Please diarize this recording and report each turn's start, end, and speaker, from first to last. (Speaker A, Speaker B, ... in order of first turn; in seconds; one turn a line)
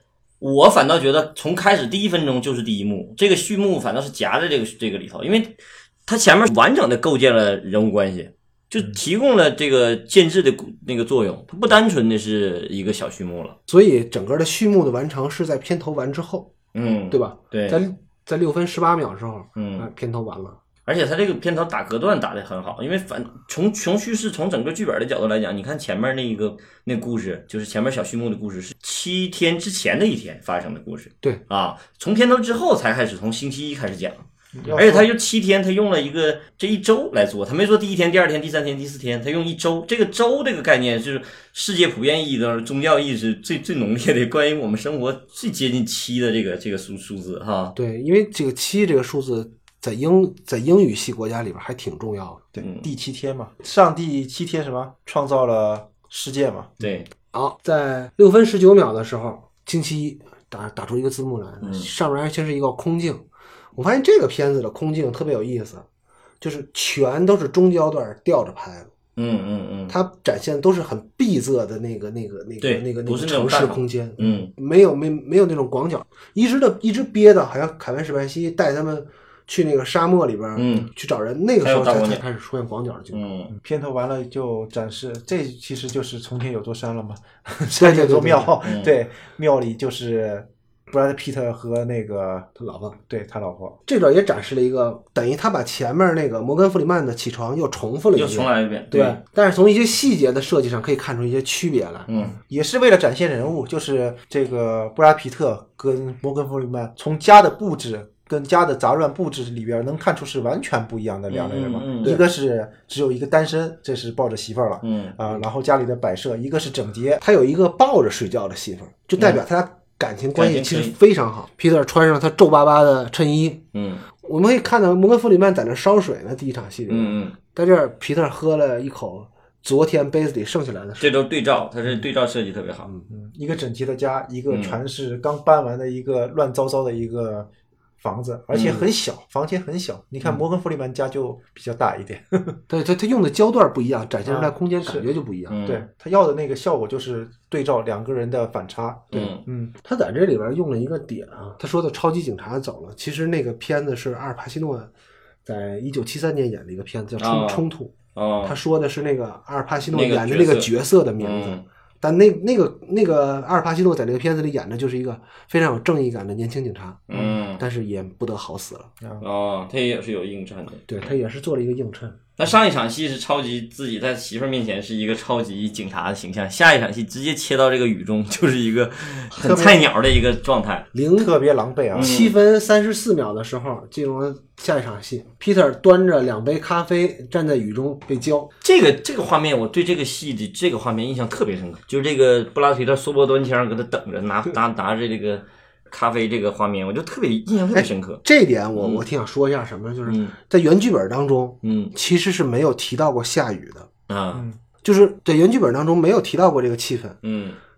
Speaker A: 0.4-13.6
Speaker B: 13.7-16.5
Speaker A: 16.7-17.8
Speaker B: 17.1-20.6
Speaker A: 19.6-19.9
Speaker A: 20.9-47.8
Speaker C: 34.5-35.1
Speaker B: 47.8-52.4
Speaker C: 52.5-56.7
Speaker A: 52.6-52.9
Speaker A: 56.8-57.1
Speaker B: 57.3-65.8
Speaker A: 61.6-61.9
Speaker B: 66.4-68.9
Speaker A: 69.2-69.9
Speaker B: 69.9-83.2
Speaker A: 72.6-74.5
Speaker A: 80.5-80.9
Speaker A: 81.6-82.2
Speaker A: 83.1-83.5
Speaker C: 83.6-92.5
Speaker B: 87.8-88.5
Speaker A: 88.6-88.9
Speaker B: 92.6-93.0
Speaker C: 93.1-93.8
Speaker B: 93.9-102.1
Speaker A: 98.1-99.2
Speaker A: 102.1-102.4
Speaker C: 102.2-117.2
Speaker A: 111.3-112.2
Speaker A: 114.8-115.2
Speaker B: 117.2-123.6
Speaker A: 120.3-120.9
Speaker A: 123.7-124.0
Speaker B: 124.2-131.1
Speaker A: 126.9-127.3
Speaker A: 131.0-132.9
Speaker C: 133.1-137.5
Speaker A: 134.5-134.8
Speaker C: 138.0-142.6
Speaker B: 138.6-138.8
Speaker B: 142.7-145.6
Speaker C: 144.2-145.1
Speaker A: 145.5-145.8
Speaker C: 145.6-149.7
Speaker A: 149.1-149.4
Speaker B: 149.8-154.9
Speaker B: 155.4-168.9
Speaker A: 157.2-158.6
Speaker A: 159.9-161.6
Speaker A: 167.1-167.6
Speaker A: 169.2-170.9
Speaker B: 170.9-172.2
Speaker A: 172.4-180.8
Speaker C: 179.3-179.8
Speaker B: 180.9-181.3
Speaker C: 181.2-182.1
Speaker A: 181.9-182.3
Speaker B: 181.9-188.5
Speaker A: 188.6-198.2
Speaker B: 197.7-203.9
Speaker A: 198.7-199.1
Speaker A: 200.1-200.3
Speaker A: 201.6-201.9
Speaker A: 204.1-204.4
Speaker C: 204.3-204.6
Speaker B: 204.8-207.2
Speaker A: 207.2-207.6